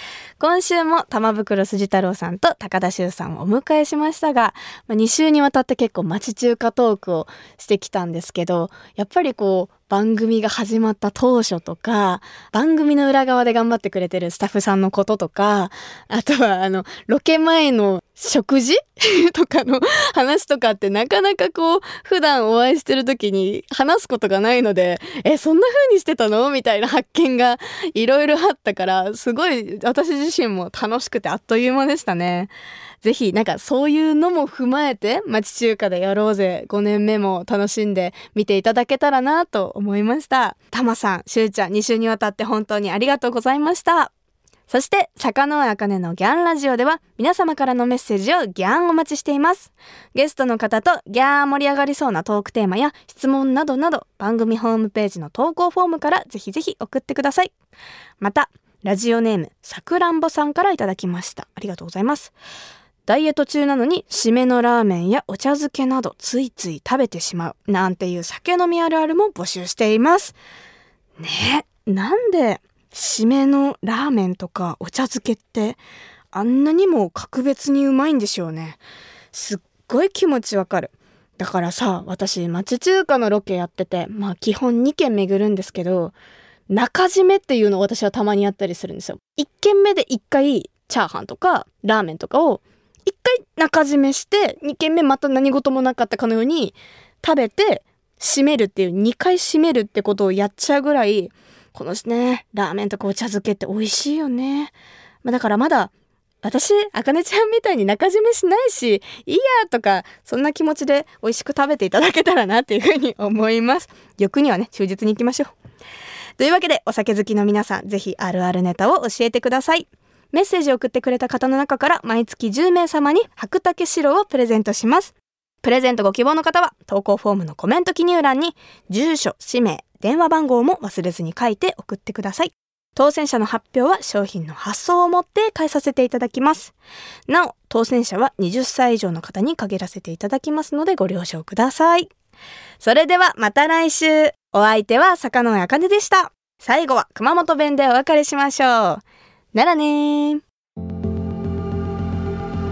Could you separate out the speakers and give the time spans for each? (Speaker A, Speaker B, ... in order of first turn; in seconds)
Speaker A: 0.4-32.5, 33.0-44.1, 44.7-57.5, 58.2-62.3, 63.0-70.3, 71.2-75.8, 76.3-78.8, 79.3-86.1, 86.7-104.7, 105.2-105.9, 106.4-115.5, 116.4-136.7, 137.3-142.1, 142.8-149.0, 149.5-150.4